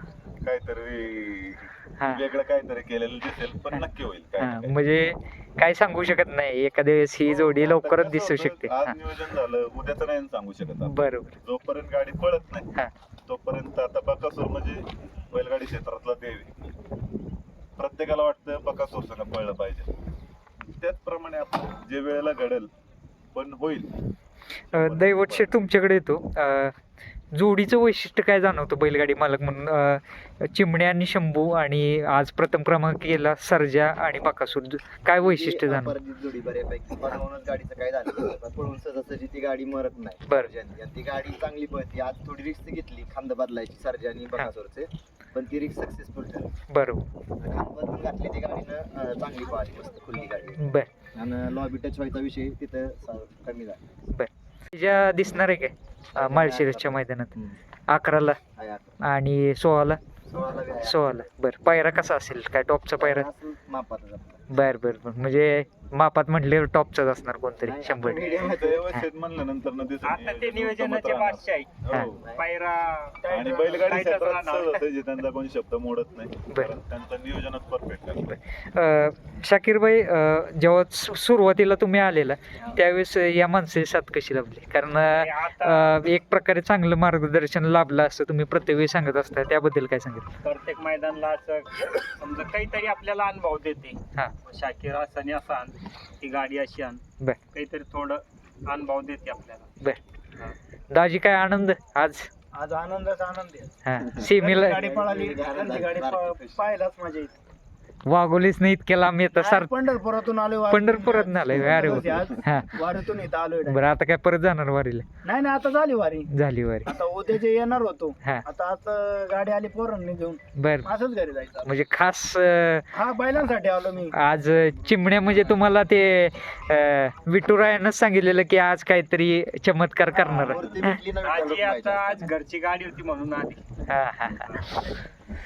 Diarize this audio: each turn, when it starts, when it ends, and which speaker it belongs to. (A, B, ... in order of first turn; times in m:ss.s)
0:00.4-0:04.8 A
0:02.0-0:02.2 B
0:04.4-0:09.0 B
0:07.2-0:12.7 A
0:10.8-0:11.4 B
0:13.3-0:16.7 A
0:17.8-0:19.9 A
0:20.8-0:22.7 A
0:23.3-0:23.9 A
0:24.7-0:25.6 A
0:24.7-0:26.8 B
0:27.3-0:36.0 B
0:35.2-0:46.5 C
0:46.7-0:47.0 B
0:47.4-0:50.6 C
0:50.6-0:50.9 B
0:51.1-0:53.8 C
0:54.1-0:57.3 B
0:56.1-0:57.6 C
0:57.9-0:58.4 B
0:58.6-0:59.0 C
0:59.0-1:00.0 B
1:00.3-1:01.2 C
1:00.8-1:03.3 B
1:03.0-1:04.4 C
1:04.5-1:08.4 B
1:07.6-1:08.9 C
1:08.4-1:12.2 A
1:10.0-1:11.8 D
1:12.1-1:12.4 C
1:12.4-1:14.8 D
1:13.2-1:13.9 E
1:13.3-1:18.3 A
1:18.2-1:30.3 B
1:25.1-1:26.0 D
1:30.4-1:39.7 D
1:40.9-1:42.3 B
1:42.5-1:43.7 E
1:43.8-1:44.8 B
1:44.0-1:46.7 C
1:44.2-1:47.3 E
1:48.0-1:49.7 B
1:49.4-1:53.8 E
1:50.7-1:52.8 B
1:53.7-1:55.0 B
1:55.2-1:56.3 E
1:56.3-1:56.9 B
1:56.8-2:01.7 E
2:00.6-2:00.9 B
2:01.6-2:02.9 B
2:02.9-2:04.1 E
2:04.1-2:11.0 B
2:10.2-2:12.3 C
2:11.2-2:13.6 D
2:13.9-2:15.0 B
2:14.4-2:14.6 D